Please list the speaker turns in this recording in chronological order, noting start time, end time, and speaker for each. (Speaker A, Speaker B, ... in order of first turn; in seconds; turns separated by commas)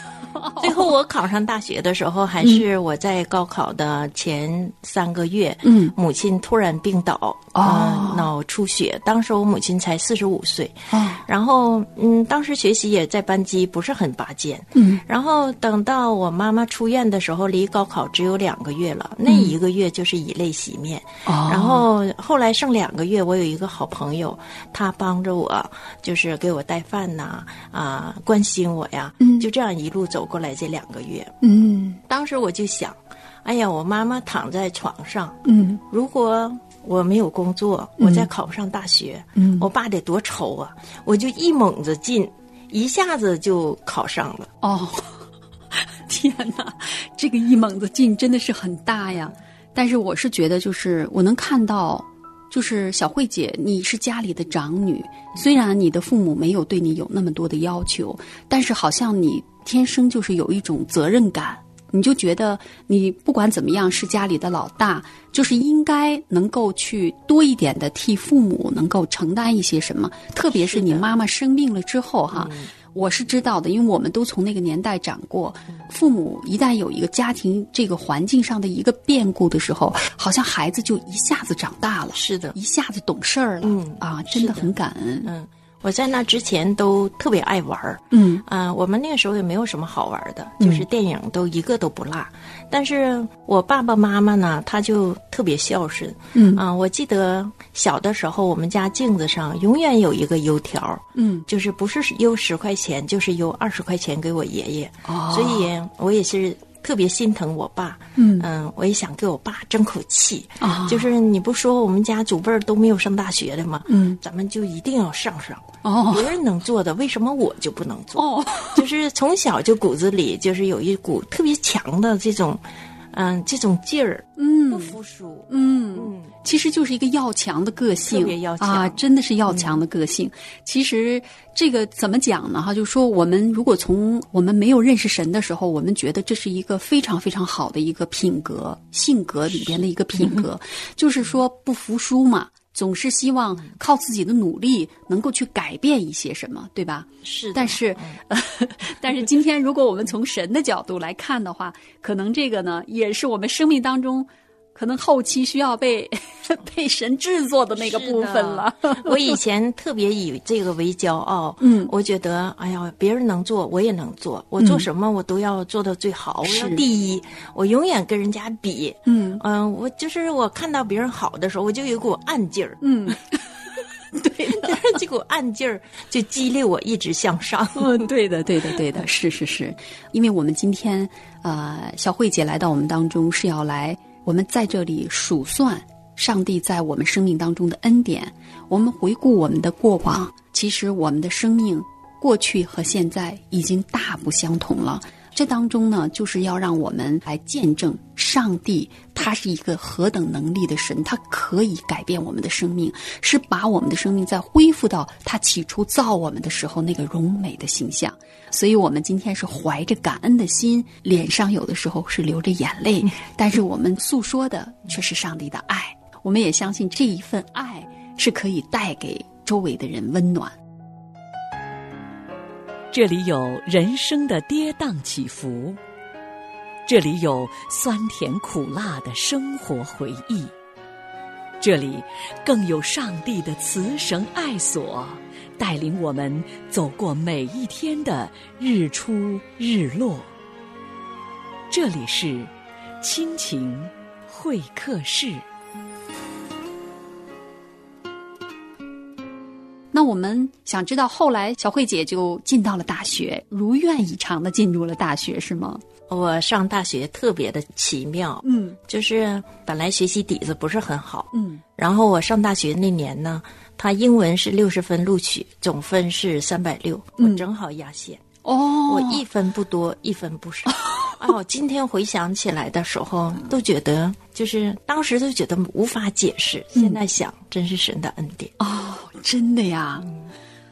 Speaker A: 0.4-0.8, Speaker B: 0.5-31.3, Speaker A: 5.6-5.9, Speaker A: 7.5-8.3, Speaker A: 10.9-11.2, Speaker A: 14.7-15.0, Speaker A: 19.3-19.5, Speaker A: 21.2-21.9, Speaker A: 29.2-29.5, Speaker A: 31.4-32.0, Speaker B: 32.1-44.5, Speaker A: 35.4-35.8, Speaker A: 38.0-38.3, Speaker A: 39.4-39.7, Speaker A: 44.6-85.3, Speaker B: 70.5-71.1, Speaker B: 72.3-72.7, Speaker B: 82.1-82.5, Speaker B: 83.6-84.7, Speaker B: 85.2-126.3, Speaker A: 88.1-88.4, Speaker A: 90.6-90.8, Speaker A: 96.3-96.6, Speaker A: 101.1-101.5, Speaker A: 105.0-105.7, Speaker A: 108.2-108.5, Speaker A: 110.6-111.1, Speaker A: 113.9-114.2, Speaker A: 115.8-116.3, Speaker A: 118.2-118.8, Speaker A: 124.4-125.0, Speaker A: 125.5-159.3, Speaker B: 128.0-129.8, Speaker B: 140.2-140.4, Speaker B: 147.2-148.2, Speaker B: 157.7-172.8, Speaker A: 161.6-161.9, Speaker A: 164.6-164.8, Speaker A: 166.4-166.8, Speaker A: 169.1-169.4, Speaker A: 172.8-173.4, Speaker A: 174.1-174.9, Speaker B: 174.2-178.1, Speaker A: 177.7-220.6, Speaker C: 222.9-225.8, Speaker C: 226.8-230.5, Speaker C: 231.6-240.3, Speaker C: 241.7-245.4, Speaker A: 249.9-255.8, Speaker B: 256.1-268.2, Speaker A: 258.4-258.8, Speaker A: 261.3-261.6, Speaker A: 267.2-267.4, Speaker A: 268.4-269.2, Speaker B: 268.8-278.5, Speaker A: 270.8-271.2, Speaker A: 276.7-277.0, Speaker A: 278.6-280.1